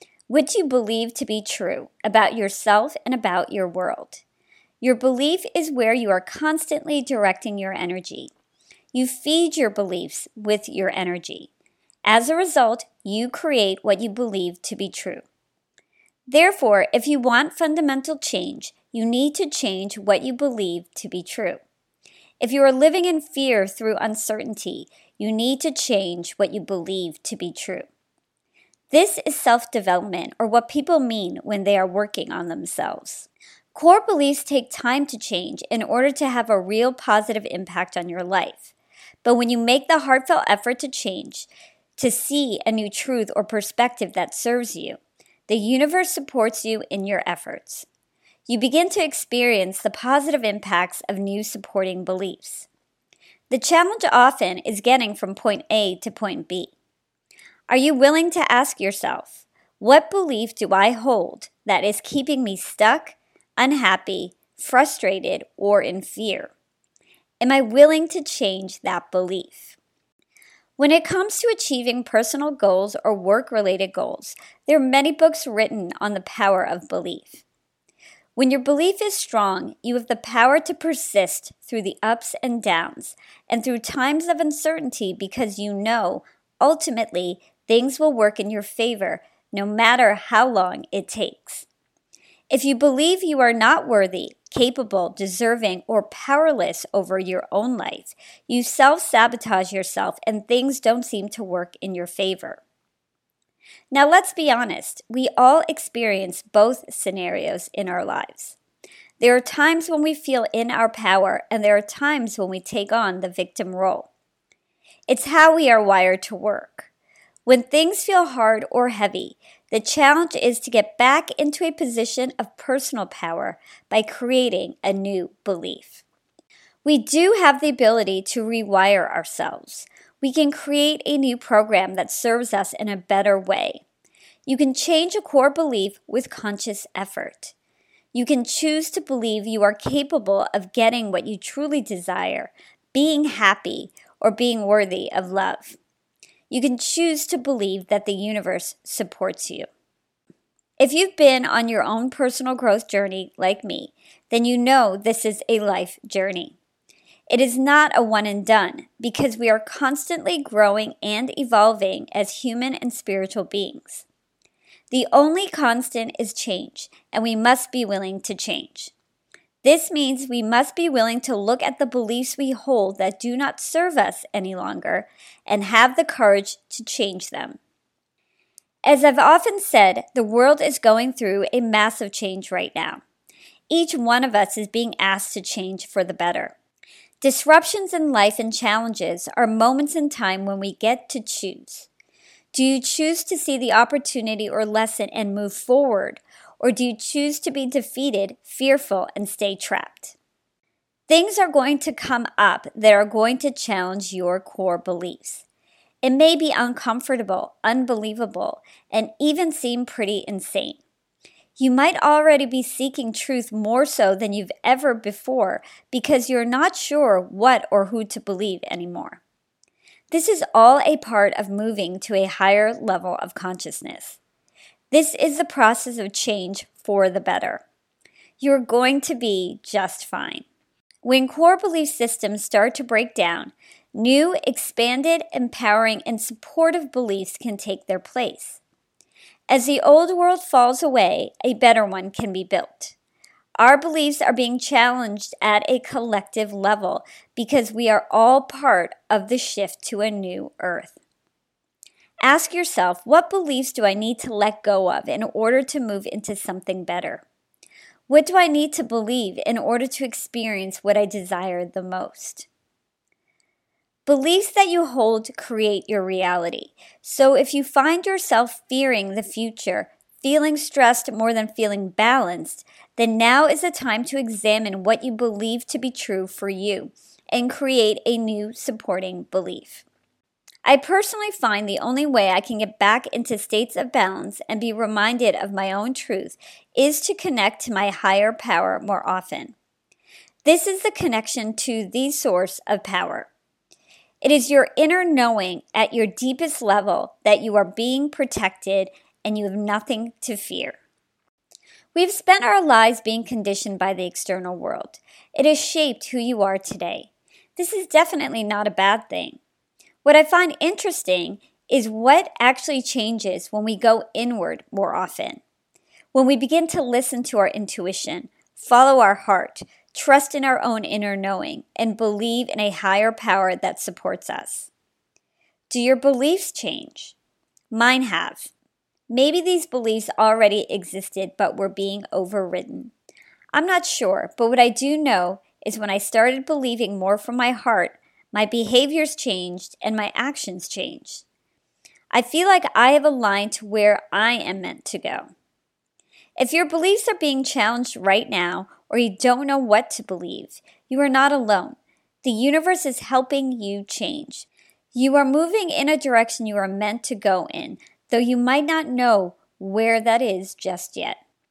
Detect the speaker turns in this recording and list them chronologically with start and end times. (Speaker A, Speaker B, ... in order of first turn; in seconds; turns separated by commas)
Speaker A: 0.3-4.2, Speaker A: 4.8-8.3, Speaker A: 8.9-11.5, Speaker A: 12.1-15.2, Speaker A: 16.3-21.6, Speaker A: 22.4-27.9, Speaker A: 28.9-38.7, Speaker A: 39.2-47.9, Speaker A: 48.5-52.7, Speaker A: 53.5-56.7, Speaker A: 57.7-66.5, Speaker A: 67.4-69.8, Speaker A: 70.8-77.4, Speaker A: 78.3-91.7, Speaker A: 92.5-102.6, Speaker A: 103.9-108.6, Speaker A: 109.2-114.1, Speaker A: 115.1-116.9, Speaker A: 117.5-126.0, Speaker A: 126.8-133.8, Speaker A: 134.5-137.5, Speaker A: 138.1-145.8, Speaker A: 146.5-149.7, Speaker A: 150.8-156.6, Speaker A: 157.3-164.1, Speaker A: 164.9-168.9, Speaker A: 169.6-177.6, Speaker A: 178.8-183.0, Speaker A: 183.7-186.5, Speaker A: 187.2-191.9, Speaker A: 192.5-200.2, Speaker A: 201.1-205.4, Speaker A: 206.0-210.8, Speaker A: 211.6-219.2, Speaker A: 220.1-224.2, Speaker A: 224.9-227.6, Speaker A: 228.4-230.4, Speaker A: 231.0-238.6, Speaker A: 239.5-242.9, Speaker A: 243.6-251.0, Speaker A: 252.2-257.2, Speaker A: 258.1-262.5, Speaker A: 264.1-279.8, Speaker A: 280.6-289.6, Speaker A: 290.4-293.3, Speaker A: 294.2-300.8, Speaker A: 301.9-309.4, Speaker A: 310.0-315.4, Speaker A: 316.1-324.7, Speaker A: 325.7-327.1, Speaker A: 327.7-328.5, Speaker A: 329.1-332.9, Speaker A: 333.5-341.2, Speaker A: 342.1-345.3, Speaker A: 346.4-361.2